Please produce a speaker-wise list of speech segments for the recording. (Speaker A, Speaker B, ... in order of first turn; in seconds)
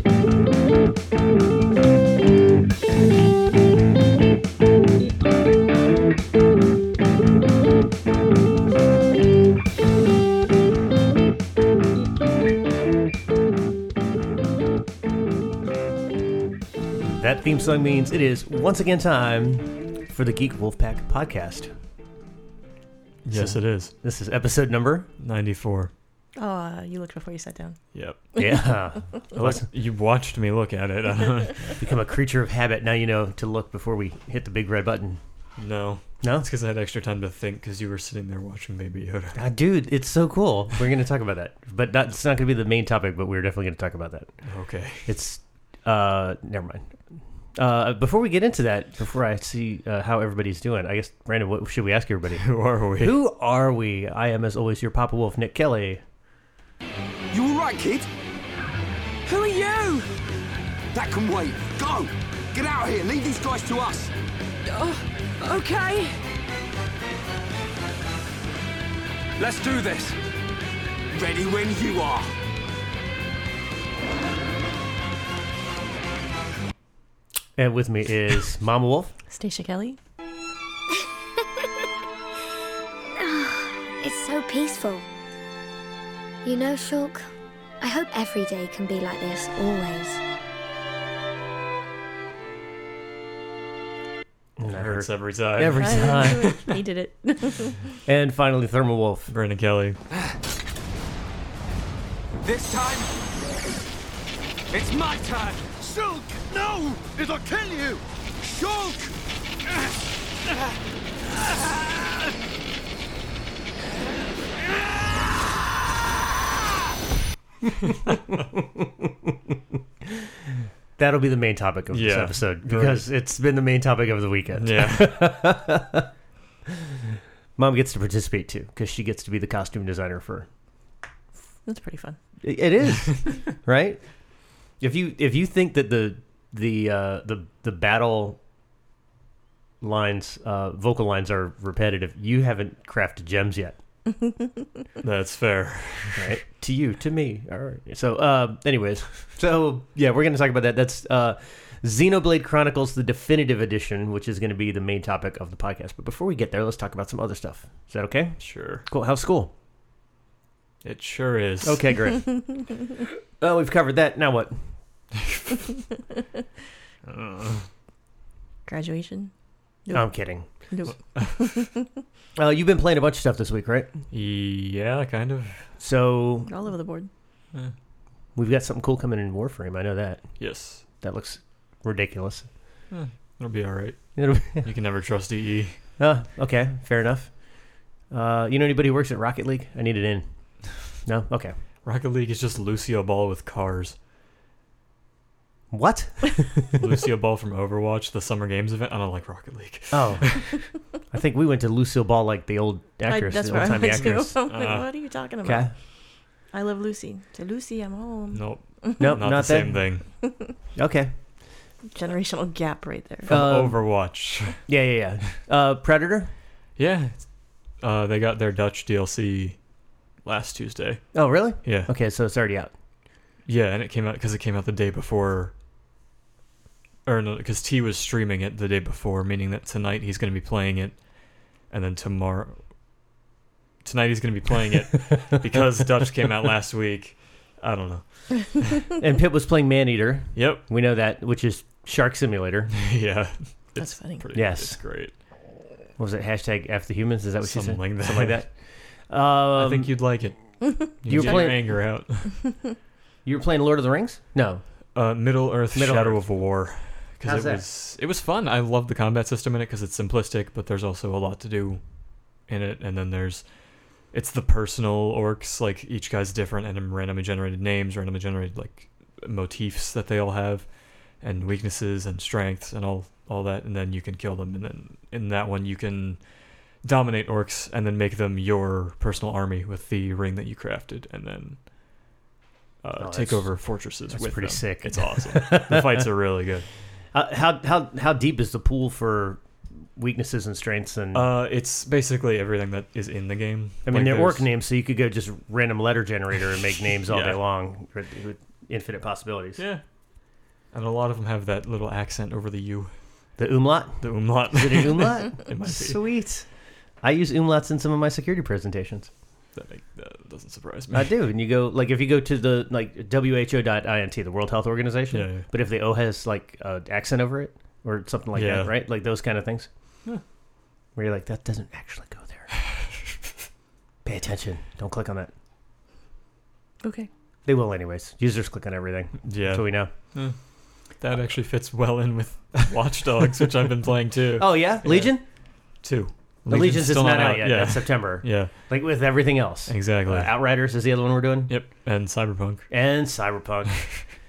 Speaker A: 17.0-21.7, 23.3-25.1, 28.4-29.7, 31.8-35.2, 36.2-36.5, 39.3-44.3, 45.1-47.0, 47.5-52.5, 53.0-56.0, 77.6-79.1, 94.6-96.5, 98.0-99.3, 117.6-120.3, 121.0-126.1, 126.7-130.5, 132.4-134.0, 134.8-138.4, 139.8-143.8, 146.1-159.5, 161.6-162.7, 163.4-164.6, 169.9-170.5, 172.4-173.9, 175.8-176.5, 178.4-182.5, 184.2-184.7, 186.0-187.3, 188.1-190.2, 190.9-191.6, 195.7-196.9, 199.9-200.4, 201.1-204.5, 205.4-205.7, 209.0-209.9, 210.8-211.1, 213.3-213.9, 214.7-216.3, 221.1-222.7, 238.9-242.8, 244.3-244.8, 246.0-248.6, 249.1-250.0, 251.0-251.8, 253.2-254.6, 255.7-256.2, 257.2-257.6, 283.0-286.0, 287.1-289.4, 289.9-291.2, 293.9-299.6, 303.4-306.5, 307.0-309.1, 310.9-319.7, 320.9-322.5, 324.1-325.3, 327.4-329.9, 334.4-335.2, 336.5-341.5, 342.7-343.8
Speaker B: 23.2-23.9, 25.2-25.9, 27.9-28.2, 29.4-31.8, 35.6-39.4, 44.4-45.1, 52.4-53.2, 94.7-96.6, 99.3-100.0, 121.9-123.0, 124.6-125.3, 145.0-146.4, 158.4-158.8, 160.8-162.0, 167.1-167.7, 171.1-171.6, 174.1-175.7, 180.4-180.8, 182.9-185.8, 191.8-193.9, 196.8-200.6, 203.5-203.9, 204.4-204.9, 208.3-210.1, 213.3-214.7, 216.8-219.7, 220.2-221.9, 223.4-225.5, 227.1-232.6, 233.8-238.8, 240.3-240.6, 242.7-245.1, 247.4-248.4, 249.6-252.3, 254.9-261.8, 262.5-263.4, 264.1-281.6, 282.8-286.6, 291.1-294.5, 297.1-297.4, 300.7-302.9, 304.0-306.0, 309.6-311.1, 315.1-315.5, 318.3-318.8, 329.2-330.4, 331.0-335.2, 335.7-338.5, 339.7-340.3, 341.5-342.6
Speaker C: 26.4-27.8, 79.3-80.0, 95.8-98.0, 131.6-132.2, 168.7-169.3, 169.8-171.9, 176.4-177.1, 203.1-205.7, 206.5-209.2, 210.2-210.5, 211.9-213.3, 243.8-244.2, 326.8-327.1
Speaker D: 57.3-58.1, 59.3-60.1, 60.9-64.1, 64.7-66.1, 69.4-70.2, 71.1-72.3, 102.4-103.1, 104.7-112.3, 114.6-115.4
Speaker E: 83.2-85.1, 86.4-87.3, 87.8-90.2